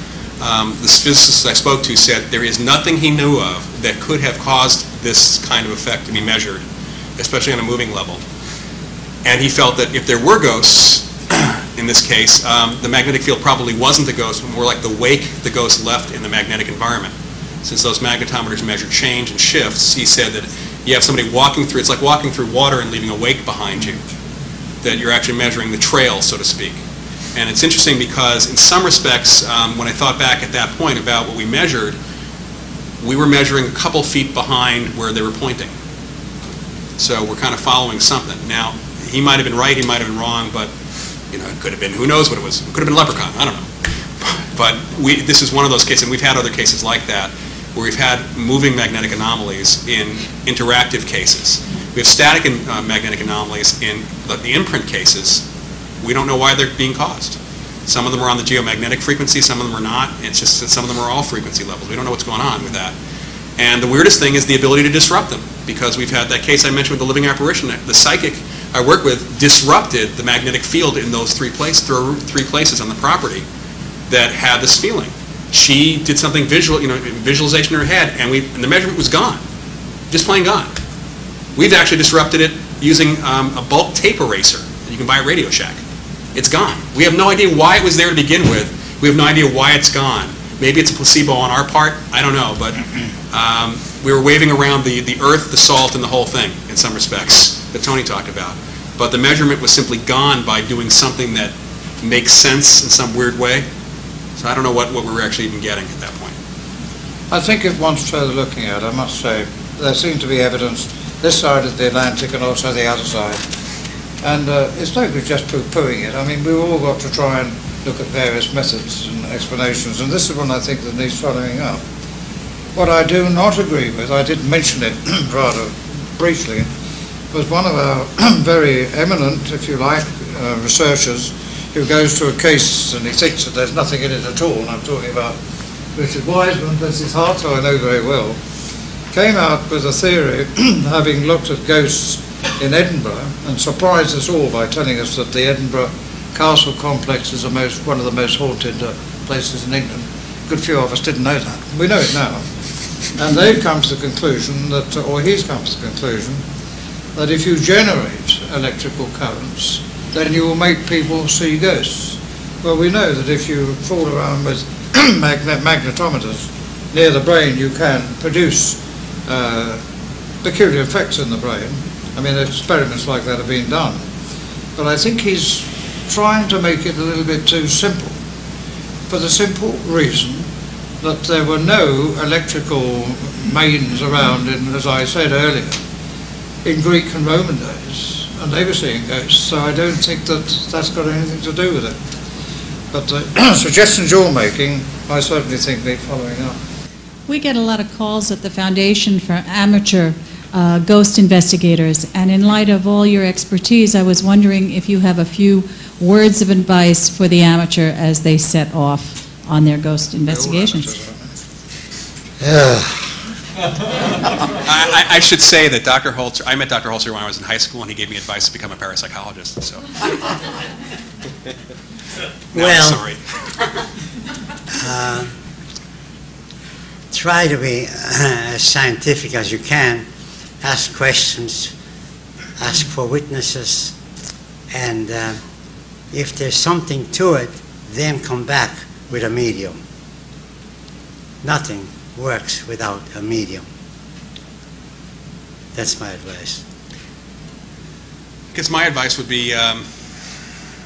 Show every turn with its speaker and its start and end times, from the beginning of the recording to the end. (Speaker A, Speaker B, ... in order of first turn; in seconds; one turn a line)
Speaker A: 0.4-6.6
Speaker A: 7.2-8.2
Speaker A: 9.2-17.1
Speaker A: 17.6-24.0
Speaker A: 24.8-26.8
Speaker A: 27.4-32.0
Speaker A: 33.0-35.7
Speaker A: 37.0-40.7
Speaker A: 41.3-43.7
Speaker A: 44.2-55.4
Speaker A: 56.0-63.0
Speaker A: 63.6-73.5
Speaker A: 74.1-79.4
Speaker A: 80.1-80.8
Speaker A: 81.6-85.8
Speaker A: 86.3-103.7
Speaker A: 104.4-106.3
Speaker B: 107.3-113.4
Speaker B: 114.2-121.8
Speaker B: 122.8-126.7
Speaker B: 127.3-135.4
Speaker B: 135.9-138.4
Speaker B: 139.1-152.5
Speaker B: 153.0-156.4
Speaker B: 157.2-169.8
Speaker B: 170.4-174.1
Speaker B: 174.8-178.2
Speaker B: 179.1-180.5
Speaker B: 181.0-185.8
Speaker B: 186.6-192.0
Speaker B: 192.9-196.6
Speaker C: 197.3-210.9
Speaker B: 210.3-211.3
Speaker D: 212.4-213.1
Speaker A: 214.6-220.3
Speaker D: 222.5-223.0
Speaker A: 222.5-223.2
Speaker D: 224.7-225.3
Speaker D: 227.1-230.1
Speaker D: 230.6-231.8
Speaker D: 232.6-234.0
Speaker D: 234.7-235.4
Speaker D: 236.1-239.8
Speaker D: 241.4-243.7
Speaker D: 245.7-246.6
Speaker A: 248.5-249.9